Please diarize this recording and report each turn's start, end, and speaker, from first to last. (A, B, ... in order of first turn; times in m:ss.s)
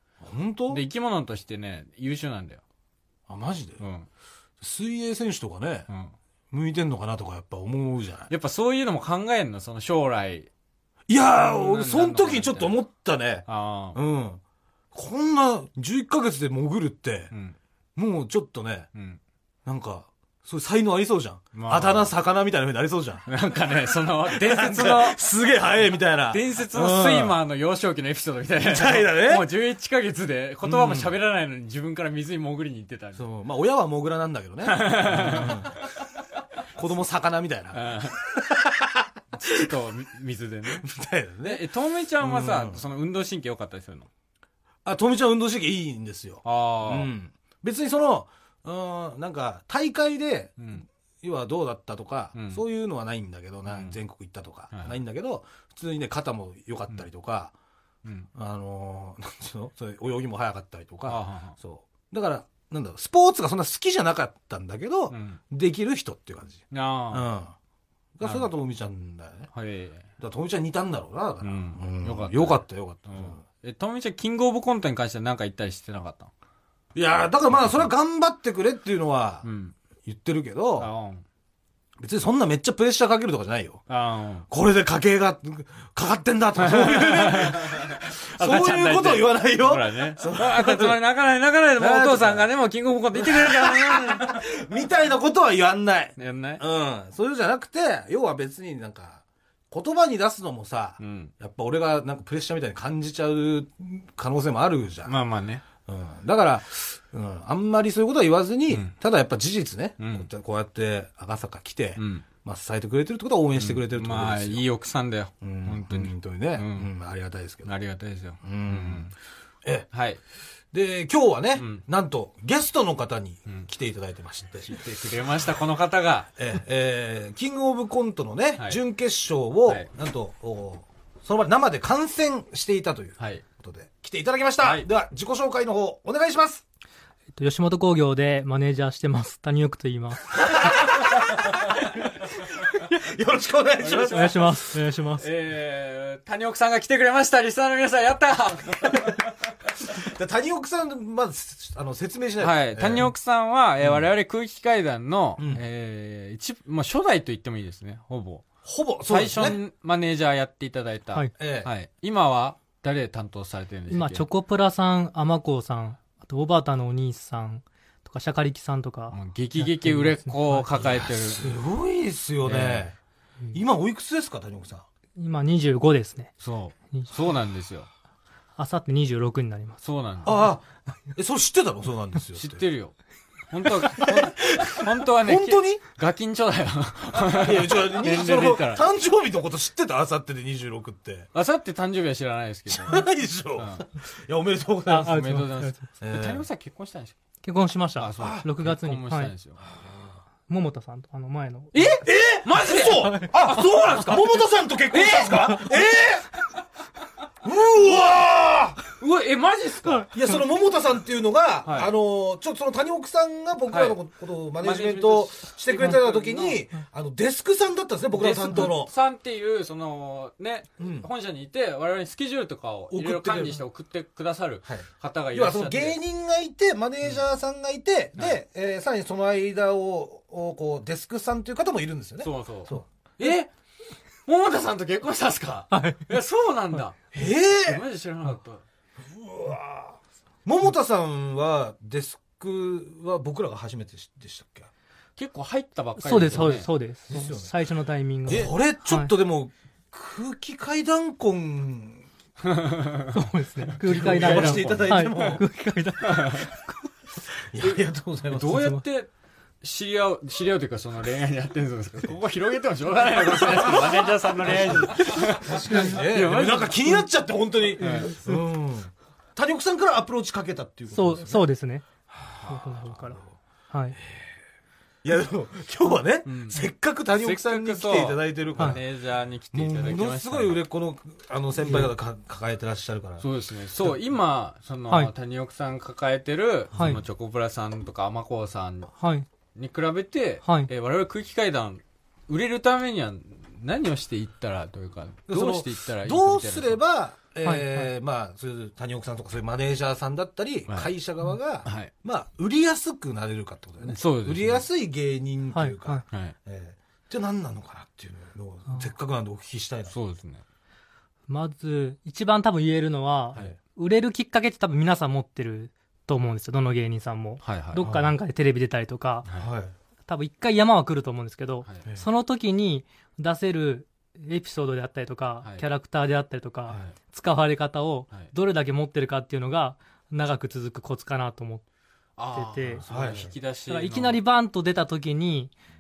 0:00.2-0:00.8 A
0:00.7-0:02.6 B
0:03.3-0:03.8 A
0:03.8-0:04.1 B
0:04.6-0:05.9 A
0:05.9-0:06.1 B
0:06.5-0:08.3 A
0:08.3-0:10.5 B
0:11.1-0:14.4 A
0:11.4-0:12.8 B
0:13.5-0:14.0 B
0:14.9-0:17.3 A
0:18.0-0:18.9 A
0:19.0-0:19.2 B
0:19.6-0:23.2 A
0:21.5-0:22.1 B
0:23.3-0:25.2 B
0:24.3-0:27.4 A
0:26.3-0:33.2 B
0:28.7-0:29.5 A
0:30.6-0:31.1 A
0:33.2-0:35.8 A
0:34.6-0:35.7 B
0:36.8-0:39.7 A
0:37.7-0:38.2 B
0:39.3-0:40.9 B
0:40.8-0:41.6 A
0:41.4-0:44.1 B
0:42.2-0:42.8 A
0:44.8-0:57.5 A
0:46.4-0:47.1 B
0:50.6-0:50.9 B
0:52.4-0:52.6 B
0:53.7-0:54.0 B
0:58.4-1:07.5 A
1:01.1-1:01.6 B
1:05.1-1:05.4 B
1:06.7-1:07.3 B
1:08.2-1:09.5 A
1:08.2-1:08.5 B
1:09.5-1:10.1 B
1:10.2-1:13.4 A
1:11.4-1:16.3 B
1:17.0-1:19.5 A
1:17.6-1:17.9 B
1:19.4-1:19.8 B
1:20.0-1:20.9 A
1:20.8-1:21.2 B
1:22.0-1:23.8 A
1:23.9-1:24.5 B
1:24.5-1:31.0 A
1:26.6-1:34.5 B
1:31.8-1:32.5 A
1:33.1-1:45.2 A
1:36.2-1:36.6 B
1:41.0-1:41.3 B
1:45.0-1:45.6 B
1:45.9-1:54.6 A
1:50.0-1:50.3 B
1:52.0-1:52.3 B
1:53.6-1:56.9 B
1:55.4-1:57.7 A
1:57.6-1:59.1 B
1:58.4-1:59.1 A
1:59.9-2:00.2 B
2:00.7-2:04.8 A
2:01.6-2:01.8 B
2:04.6-2:06.3 B
2:06.4-2:16.6 A
2:13.2-2:13.4 B
2:14.6-2:14.9 B
2:17.4-2:20.4 C
2:20.4-2:24.4 A
2:23.8-2:29.3 B
2:24.1-2:25.3 C
2:29.9-2:33.1 A
2:32.4-2:38.5 B
2:35.4-2:35.6 A
2:38.6-2:39.6 A
2:39.1-2:44.3 B
2:41.4-2:41.7 A
2:43.9-2:50.7 C
2:49.1-2:51.6 B
2:50.8-2:53.0 A
2:52.4-2:52.9 B
2:53.5-2:54.9 A
2:55.2-2:56.3 C
2:56.4-2:57.9 B
2:58.6-2:59.8 C
2:59.8-3:00.4 B
3:00.2-3:02.6 A
3:02.4-3:02.9 B
3:03.5-3:08.8 B
3:03.8-3:05.8 A
3:07.2-3:11.3 A
3:11.3-3:13.8 B
3:12.7-3:15.2 A
3:14.9-3:15.8 C
3:15.0-3:17.2 B
3:16.0-3:16.5 A
3:17.4-3:19.3 C
3:18.0-3:19.6 B
3:18.2-3:18.5 A
3:19.7-3:20.2 A
3:20.5-3:21.9 C
3:21.7-3:24.3 B
3:21.9-3:26.3 A
3:24.9-3:25.9 B
3:27.4-3:28.8 A
3:28.9-3:30.1 B
3:30.1-3:38.9 A
3:31.6-3:31.9 B
3:33.7-3:34.0 B
3:34.6-3:36.6 B
3:38.1-3:46.0 B
3:40.8-3:41.1 A
3:42.9-3:43.6 A
3:44.7-3:52.9 A
3:52.2-3:53.5 B
3:54.3-3:58.6 B
3:55.7-3:56.1 C
3:57.1-3:57.8 A
3:59.0-4:04.7 A
4:05.2-4:06.7 B
4:06.0-4:09.1 C
4:07.1-4:07.5 A
4:08.3-4:12.1 A
4:12.4-4:13.1 B
4:13.1-4:16.7 C
4:13.8-4:15.4 A
4:13.8-4:15.4 B
4:16.1-4:16.4 B
4:17.5-4:18.8 A
4:18.3-4:19.1 B
4:19.6-4:27.1 B
4:23.4-4:31.4 A
4:25.6-4:25.9 C
4:27.8-4:28.1 B
4:27.8-4:28.4 C
4:30.9-4:31.9 C
4:32.1-4:33.3 A
4:32.5-4:34.0 C
4:34.0-4:34.3 A
4:35.0-4:38.8 A
4:36.3-4:36.6 B
4:37.2-4:40.6 B
4:39.5-4:43.2 A
4:41.6-4:41.9 C
4:43.2-4:48.9 B
4:46.7-4:47.0 C
4:49.0-4:49.3 C
4:49.6-4:56.8 B
4:50.4-4:50.7 C
4:55.3-5:09.9 A
4:57.4-4:57.9 C
5:01.6-5:01.9 B
5:03.8-5:04.7 B
5:05.5-5:06.0 C
5:09.9-5:10.4 B
5:11.3-5:19.3 C
5:17.4-5:17.9 B
5:17.8-5:18.1 A
5:19.4-5:19.7 A
5:20.1-5:31.6 C
5:32.2-5:34.2 B
5:32.3-5:32.9 C
5:32.9-5:33.3 A
5:33.7-5:35.5 C